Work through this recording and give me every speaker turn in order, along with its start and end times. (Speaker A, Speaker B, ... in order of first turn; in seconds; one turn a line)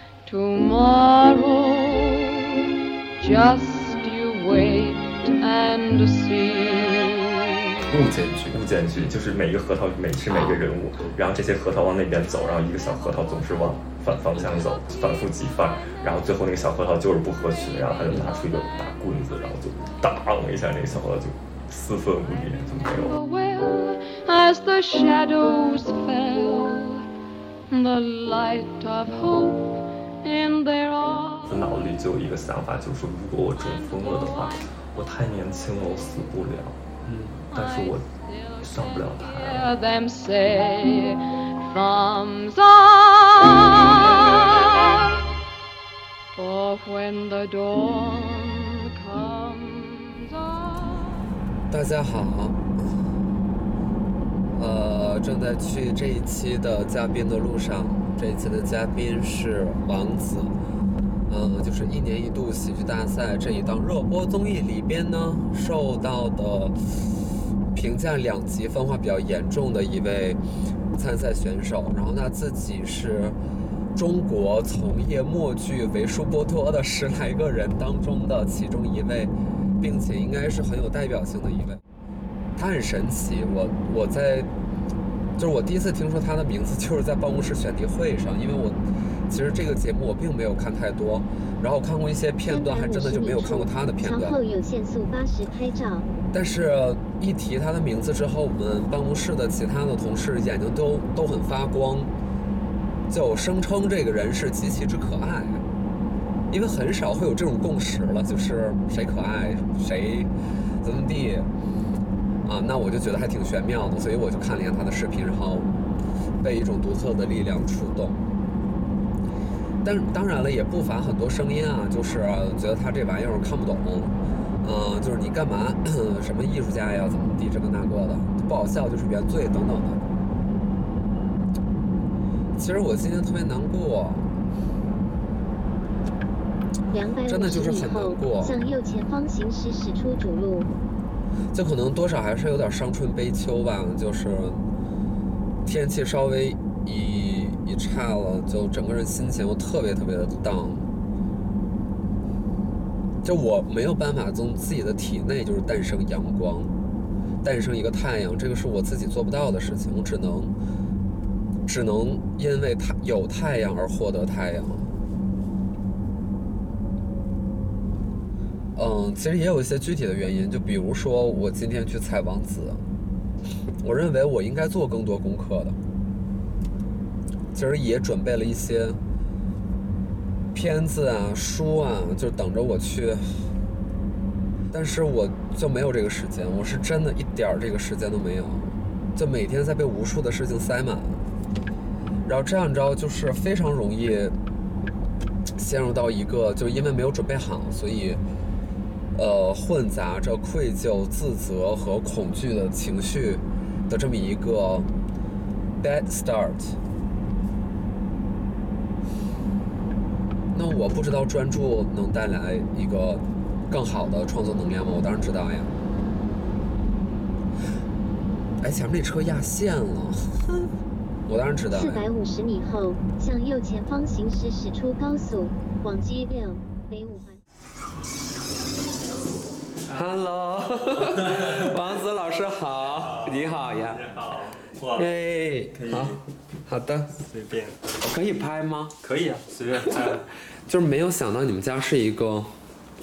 Speaker A: 0.2-7.5
Speaker B: 7.9-9.1
Speaker C: 8.5-23.2
Speaker B: 10.3-11.2
Speaker B: 14.3-14.7
Speaker A: 22.9-27.1
Speaker A: 27.7-31.7
Speaker C: 31.4-36.8
Speaker B: 37.0-37.4
Speaker C: 37.5-38.0
Speaker A: 37.5-45.2
Speaker C: 38.6-39.7
Speaker A: 46.3-51.2
Speaker B: 51.7-53.1
Speaker B: 54.5-60.5
Speaker B: 61.3-70.4
Speaker B: 70.9-73.4
Speaker B: 73.9-81.8
Speaker B: 82.5-84.5
Speaker B: 85.4-94.4
Speaker D: 92.5-96.1
Speaker B: 96.3-102.1
Speaker B: 103.1-105.6
Speaker B: 106.5-110.3
Speaker B: 110.8-111.5
Speaker B: 112.4-115.7
Speaker B: 116.4-118.2
Speaker B: 119.8-130.0
Speaker B: 132.6-134.3
Speaker D: 136.9-140.7
Speaker B: 137.3-138.6
Speaker B: 141.5-144.6
Speaker B: 145.6-150.9
Speaker B: 153.2-156.7
Speaker B: 157.4-160.5
Speaker B: 161.7-164.9
Speaker B: 168.7-172.8
Speaker B: 173.8-175.8
Speaker B: 177.5-179.0
Speaker B: 180.5-183.5
Speaker B: 184.7-191.2
Speaker B: 192.2-194.3
Speaker B: 195.6-198.2
Speaker B: 199.1-204.9
Speaker B: 205.8-206.8
Speaker B: 210.5-215.8
Speaker B: 218.6-220.7
Speaker B: 221.3-222.0
Speaker D: 221.7-227.4
Speaker B: 229.8-234.1
Speaker C: 231.1-231.6
Speaker C: 233.0-235.1
Speaker B: 234.9-237.2
Speaker C: 235.7-236.2
Speaker C: 237.2-237.9
Speaker B: 238.0-239.0
Speaker C: 239.0-240.3
Speaker B: 240.7-242.5